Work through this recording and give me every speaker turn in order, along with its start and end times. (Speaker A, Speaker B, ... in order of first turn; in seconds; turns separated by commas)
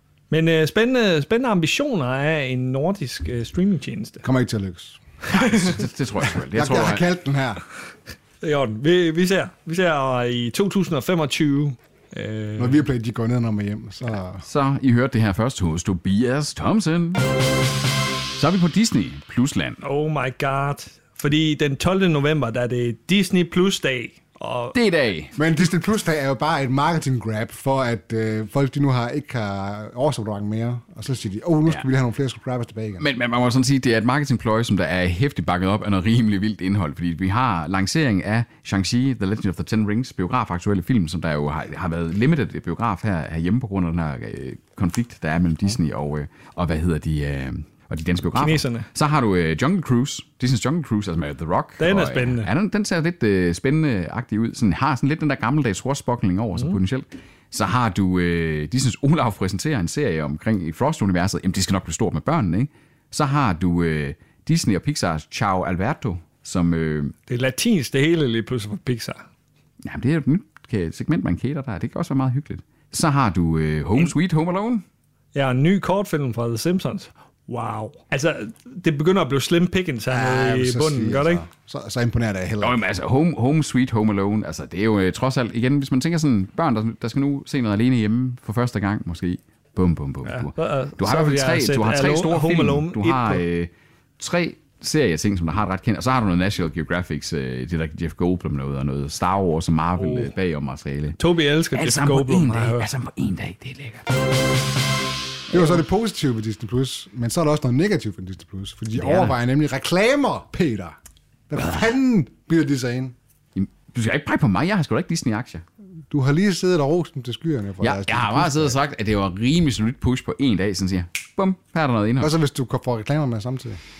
Speaker A: 0.3-4.2, Speaker B: 4.2-5.0, Speaker A: 5.3-5.8, Speaker C: 5.3-7.1, Speaker B: 6.2-7.6, Speaker A: 8.4-12.8, Speaker B: 12.6-14.4, Speaker C: 14.4-17.2, Speaker C: 18.4-19.8, Speaker A: 19.8-24.8, Speaker C: 24.7-25.3, Speaker B: 25.4-33.0, Speaker C: 33.0-67.2, Speaker A: 48.4-48.9, Speaker A: 51.8-52.5, Speaker A: 67.3-69.2, Speaker C: 69.8-74.8, Speaker A: 75.3-81.5, Speaker B: 80.1-82.8, Speaker C: 82.6-101.2, Speaker A: 90.3-93.4, Speaker A: 100.0-100.3, Speaker A: 101.2-102.9, Speaker C: 101.7-104.1, Speaker B: 105.5-111.0, Speaker C: 109.0-109.4, Speaker B: 111.5-113.2, Speaker C: 113.5-115.6, Speaker B: 116.1-118.8, Speaker C: 117.8-122.3, Speaker B: 122.2-123.8